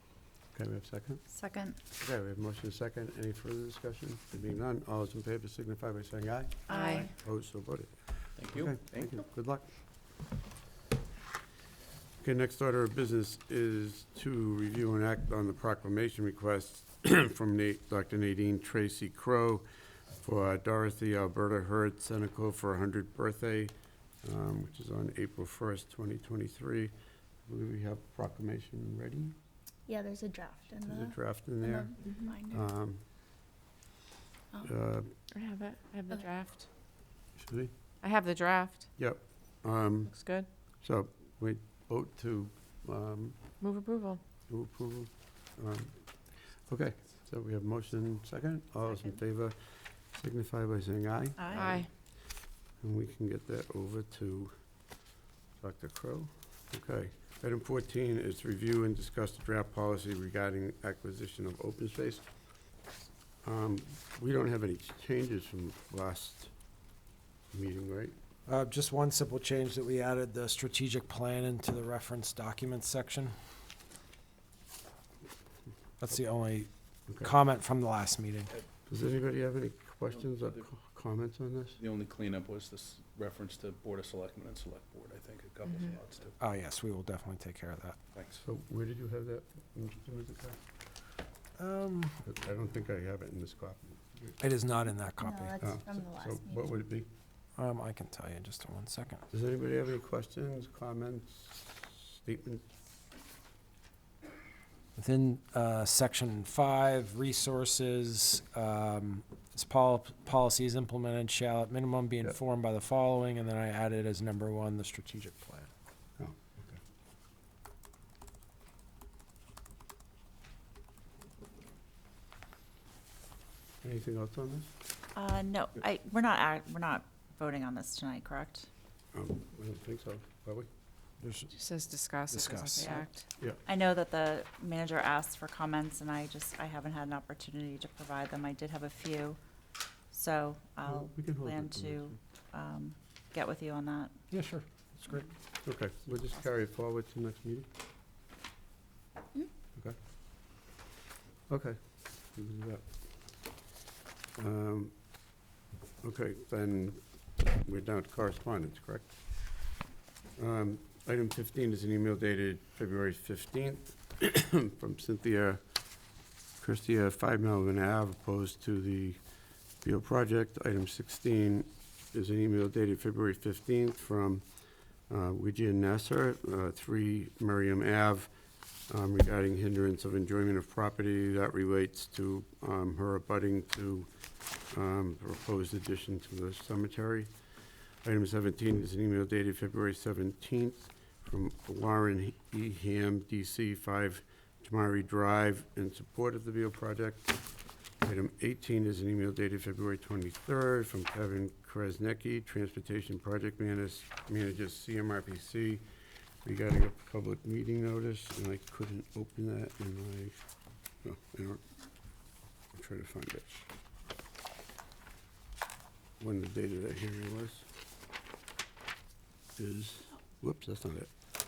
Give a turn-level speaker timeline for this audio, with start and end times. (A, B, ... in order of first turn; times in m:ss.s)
0:00.5-0:01.2 A
0:01.3-0:01.8 B
0:02.0-0:09.7 A
0:06.7-0:07.1 B
0:06.7-0:07.1 C
0:08.4-0:09.2 D
0:12.2-0:19.6 A
0:20.2-0:26.9 A
0:27.4-0:29.3 A
0:29.9-0:32.7 E
0:30.8-0:33.0 A
0:34.6-0:35.1 A
0:35.3-0:36.7 C
0:37.4-0:37.7 A
0:38.0-0:38.8 C
0:39.0-0:43.6 A
0:40.1-0:40.5 C
0:43.6-0:44.2 C
0:44.5-0:51.9 A
0:51.4-0:51.8 B
0:51.5-0:51.9 C
0:52.8-0:54.7 A
0:55.6-1:02.3 A
1:03.4-1:06.5 A
1:07.5-1:08.1 A
1:08.5-1:13.3 F
1:16.0-1:18.5 F
1:18.9-1:21.8 A
1:20.1-1:20.6 D
1:21.8-1:26.4 D
1:26.4-1:28.0 F
1:28.4-1:30.6 A
1:31.6-1:32.2 F
1:32.2-1:34.3 A
1:34.4-1:35.7 F
1:35.2-1:36.7 E
1:35.6-1:37.1 A
1:37.6-1:39.2 F
1:39.3-1:42.6 A
1:45.0-1:55.7 F
1:56.2-1:56.8 A
2:03.8-2:04.7 A
2:05.1-2:08.7 B
2:09.1-2:10.7 A
2:11.2-2:11.5 F
2:11.5-2:13.2 C
2:12.3-2:13.0 F
2:13.6-2:19.4 B
2:20.1-2:24.2 B
2:20.8-2:22.2 A
2:24.3-2:25.3 F
2:25.6-2:27.7 A
2:31.5-2:33.6 A
2:34.4-2:35.2 A
2:36.0-2:39.7 A
2:40.4-2:45.6 A
2:46.6-2:49.2 A
2:49.8-2:54.4 A
2:55.1-2:58.3 A
2:58.9-3:04.1 A
3:04.7-3:07.3 A
3:08.0-3:17.4 A
3:18.0-3:25.8 A
3:26.4-3:30.4 A
3:31.0-3:31.6 A
3:32.7-3:33.6 A
3:36.2-3:37.6 A
3:39.6-3:41.1 A